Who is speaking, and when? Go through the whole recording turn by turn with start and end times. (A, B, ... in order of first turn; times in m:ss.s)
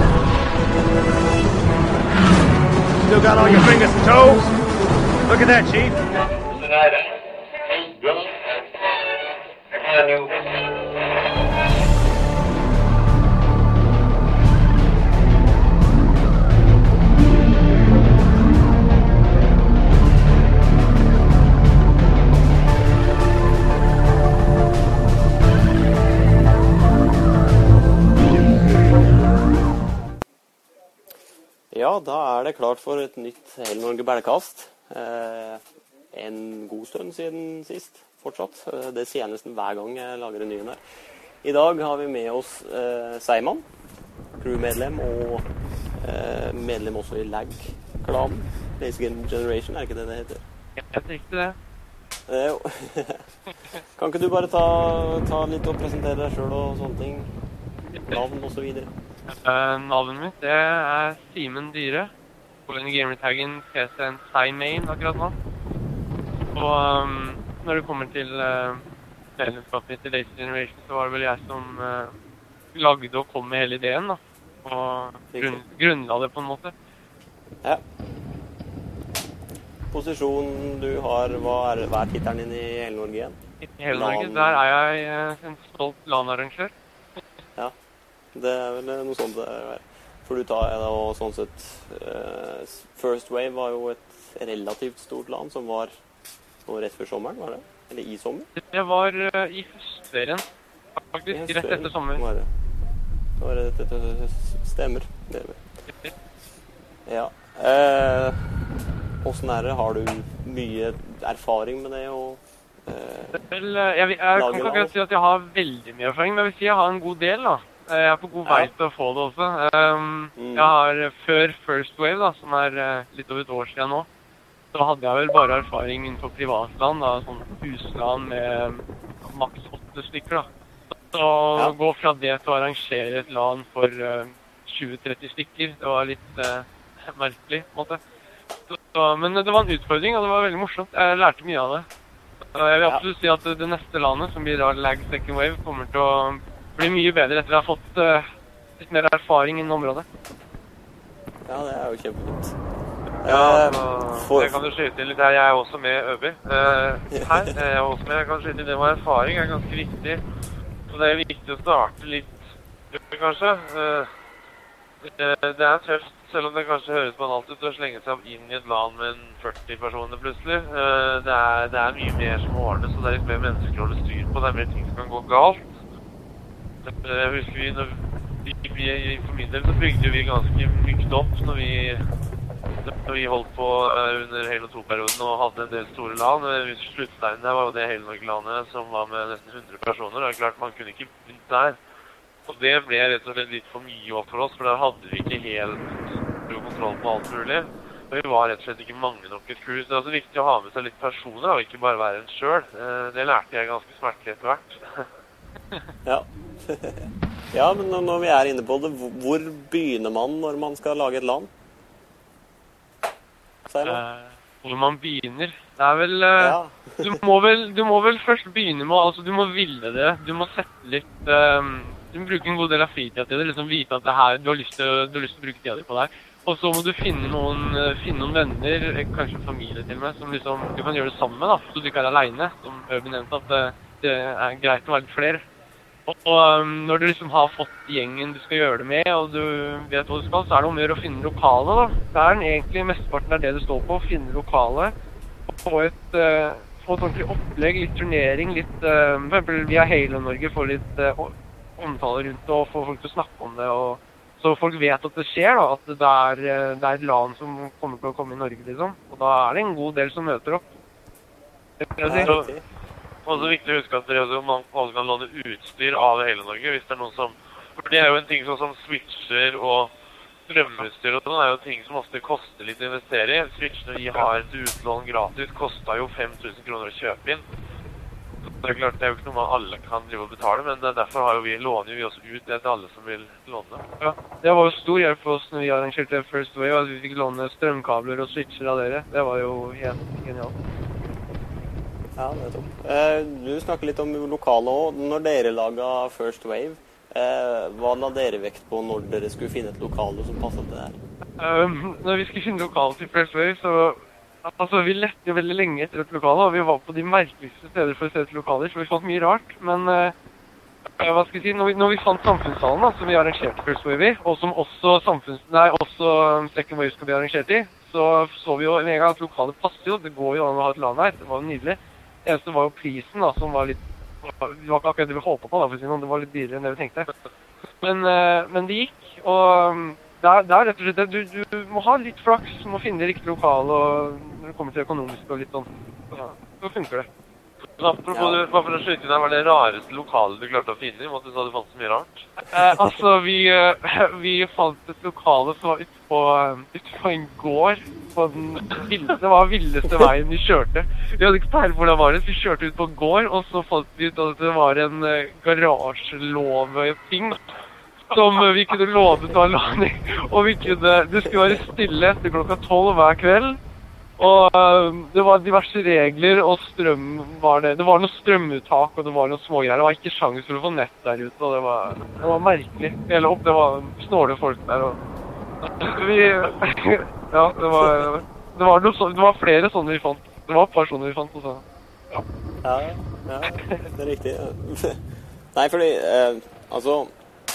0:03.0-0:04.5 A
0:05.3-0:06.0 A
0:08.0-0:08.3 A
0:31.7-0:35.6 B
0:36.1-0:40.8 B
0:41.4-0:43.6 B
0:44.4-0:45.5 B
0:46.0-0:50.4 B
0:50.8-0:51.6 C
0:52.3-0:53.2 B
0:54.0-0:57.3 B
0:58.1-0:58.9 B
0:59.3-1:02.1 C
1:02.7-1:05.4 C
1:06.6-1:08.8 C
1:09.4-1:12.1 C
1:12.7-1:16.7 C
1:15.3-1:15.6 B
1:19.9-1:23.4 B
1:23.6-1:26.7 C
1:23.9-1:24.6 B
1:28.3-1:35.9 B
1:36.7-1:38.5 B
1:38.6-1:40.4 C
1:41.0-1:42.2 C
1:41.3-1:42.5 B
1:43.4-1:45.6 B
1:47.1-1:48.4 B
1:49.2-1:53.4 B
1:53.3-2:04.1 C
1:54.4-1:54.9 B
1:58.5-1:58.7 B
2:00.4-2:00.7 B
2:04.7-2:10.5 C
2:11.1-2:18.0 C
2:18.7-2:21.9 C
2:22.5-2:28.3 C
2:28.8-2:30.1 C
2:31.5-2:32.6 B
2:33.2-2:34.6 B
2:33.2-2:40.2 D
2:37.1-2:37.5 B
2:40.9-2:44.1 D
2:45.0-2:55.7 D
2:56.8-3:02.0 D
3:02.8-3:11.8 D
3:12.5-3:15.9 D
3:16.5-3:25.1 D
3:26.1-3:31.5 B
3:33.7-3:34.0 B
3:33.8-3:55.4 C
3:36.4-3:37.2 B
3:56.1-4:04.9 C
4:05.5-4:20.6 C
4:21.8-4:22.3 C
4:22.0-4:22.6 B
4:22.1-4:22.5 D
4:23.2-4:29.9 D
4:30.5-4:37.4 D
4:38.4-4:43.8 D
4:44.0-4:50.5 C
4:52.2-5:01.0 B
5:01.4-5:10.1 C
5:11.0-5:27.1 C
5:27.8-5:37.1 C
5:37.8-5:42.3 D
5:38.1-5:38.4 B
5:42.4-5:57.4 C
5:58.1-6:03.6 C
6:04.2-6:15.0 C
6:15.6-6:22.2 C
6:22.6-6:25.0 B
6:25.5-6:27.1 B